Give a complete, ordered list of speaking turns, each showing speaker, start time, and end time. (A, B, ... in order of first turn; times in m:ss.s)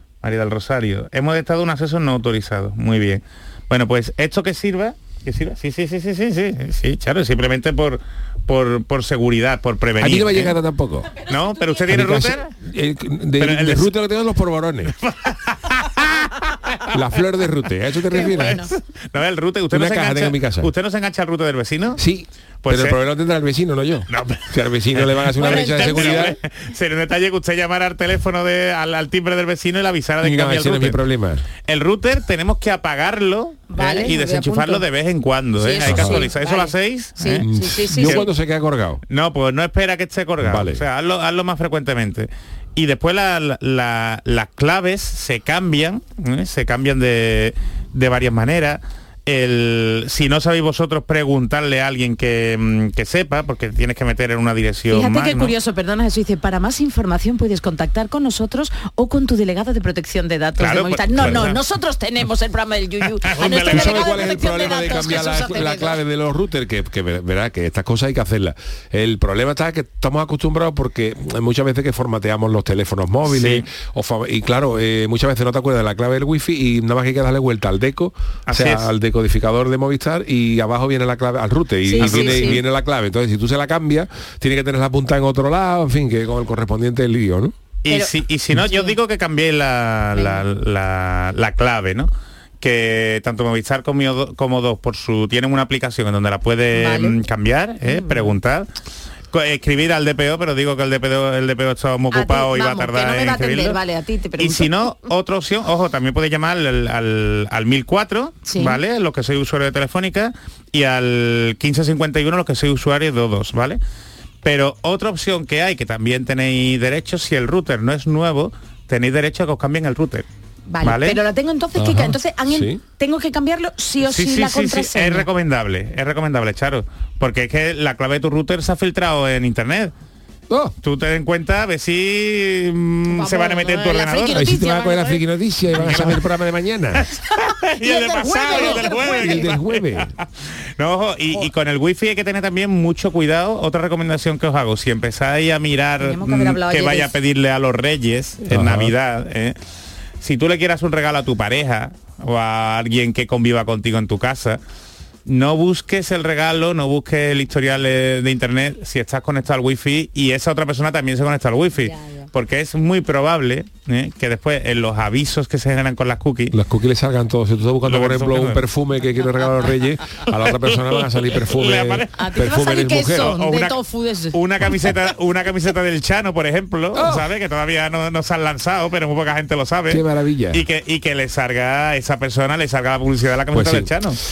0:00.2-0:10.6 A
0:10.0-0:11.1 B
0:11.2-0:11.9 C
0:11.3-0:12.5 A
0:11.9-0:14.9 B
0:13.4-0:13.9 A
0:15.0-0:16.9 A
0:16.9-0:18.6 B
0:18.1-0:18.7 C
0:18.2-0:22.0 A
0:19.7-0:20.7 B
0:22.0-0:26.4 B
0:22.6-0:23.0 A
0:24.1-0:31.0 A
0:25.4-0:26.4 C
0:30.2-0:31.4 B
0:31.7-0:37.4 A
0:33.7-0:34.8 C
0:35.6-0:38.2 C
0:35.8-0:36.3 B
0:37.4-0:39.0 B
0:38.0-0:38.3 A
0:39.1-0:55.5 A
0:40.4-0:40.8 B
0:54.9-1:06.0 C
1:00.6-1:01.6 A
1:01.2-1:01.5 B
1:03.3-1:04.2 A
1:03.4-1:27.6 B
1:13.3-1:13.6 A
1:18.5-1:18.9 A
1:21.9-1:22.6 C
1:22.0-1:22.6 A
1:27.8-1:32.1 A
1:27.9-1:29.0 C
1:30.2-1:30.4 C
1:32.6-1:38.7 A
1:36.7-1:37.2 C
1:37.8-1:38.3 C
1:39.3-1:43.8 A
1:42.1-1:44.9 C
1:44.4-1:53.8 A
1:48.5-1:48.8 C
1:54.4-2:00.3 A
2:00.7-2:05.3 C
2:00.8-2:01.2 A
2:01.8-2:02.8 B
2:04.0-2:09.9 A
2:10.5-2:10.8 B
2:10.8-2:14.4 A
2:13.1-2:15.2 C
2:14.3-2:17.1 B
2:15.8-2:16.2 A
2:17.4-2:19.5 C
2:17.7-2:20.2 A
2:18.6-2:20.1 B
2:20.8-2:29.6 A
2:26.0-2:27.1 C
2:28.5-2:28.9 B
2:30.2-2:34.6 A
2:35.3-2:46.5 A
2:41.8-2:42.3 C
2:46.5-2:53.4 B
2:47.9-2:48.6 A
2:51.4-2:52.1 A
2:52.1-2:54.4 C
2:53.1-2:53.8 A
2:54.3-3:04.2 A
2:57.0-2:57.3 B
2:59.9-3:00.6 B
3:03.5-3:03.9 B